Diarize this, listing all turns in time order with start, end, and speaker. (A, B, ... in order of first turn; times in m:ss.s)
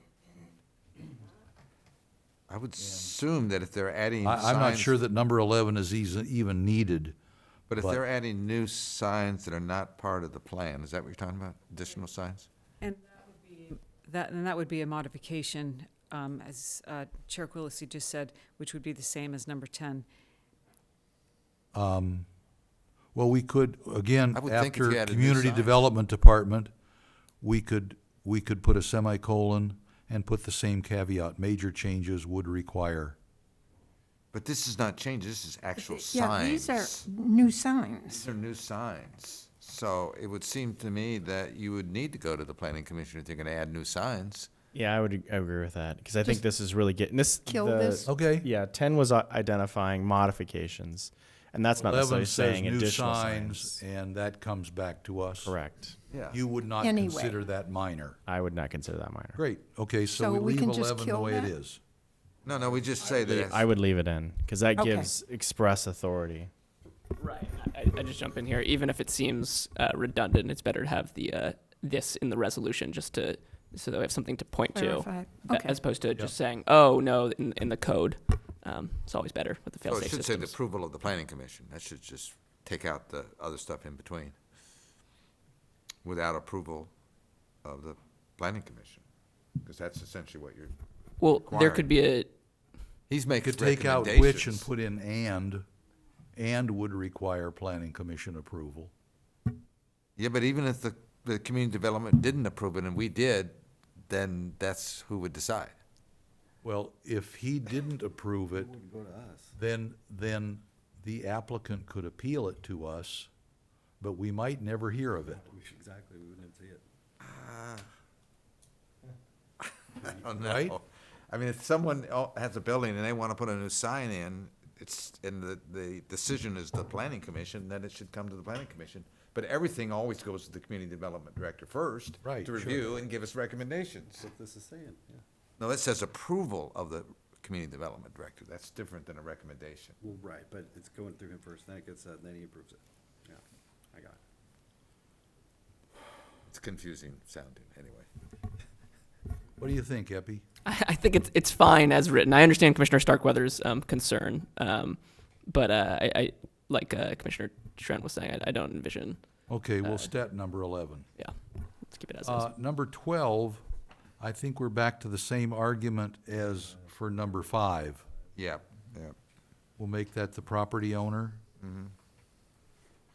0:02.5-0:05.0 A
0:02.8-0:03.1 B
0:04.2-0:07.2 B
0:07.7-0:12.5 A
0:07.7-0:08.0 B
0:12.8-0:20.0 C
0:21.7-0:22.3 B
0:23.1-0:26.7 B
0:24.3-0:25.8 A
0:27.4-0:33.2 B
0:34.3-0:37.0 A
0:35.8-0:38.2 D
0:38.1-0:44.5 A
0:44.7-0:53.8 E
0:47.4-0:48.0 D
0:48.0-0:48.5 B
0:51.8-0:55.6 B
0:55.4-0:56.0 E
0:56.1-0:56.4 A
0:56.3-0:58.2 B
0:56.8-0:57.4 D
0:58.2-0:59.4 E
0:59.4-1:01.8 B
1:00.1-1:01.5 D
1:02.4-1:03.7 A
1:03.0-1:06.5 E
1:04.8-1:05.1 D
1:07.2-1:20.6 F
1:14.8-1:15.8 D
1:19.8-1:24.4 A
1:26.0-1:26.9 A
1:27.6-1:29.0 A
1:29.6-1:30.7 A
1:31.2-1:32.3 F
1:31.4-1:31.9 A
1:33.1-1:34.7 A
1:33.4-1:35.6 B
1:36.4-1:38.9 B
1:40.2-1:43.6 A
1:44.1-1:45.8 A
1:46.6-1:48.7 B
1:48.5-1:49.5 G
1:49.6-1:53.3 B
1:54.0-1:55.4 B
1:55.2-1:56.8 G
1:57.2-1:57.8 A
1:59.7-2:14.3 A
2:00.4-2:00.8 B
2:12.2-2:12.8 B
2:14.2-2:15.2 G
2:15.6-2:19.9 A
2:20.0-2:23.4 G
2:23.9-2:24.2 G
2:26.5-2:28.1 A
2:29.6-2:30.4 B
2:30.6-2:40.1 F
2:39.5-2:41.1 B
2:41.2-2:42.5 F
2:42.2-2:43.6 B
2:44.2-2:48.0 B
2:48.4-2:49.1 A
2:49.8-2:51.4 B
2:51.6-2:51.9 A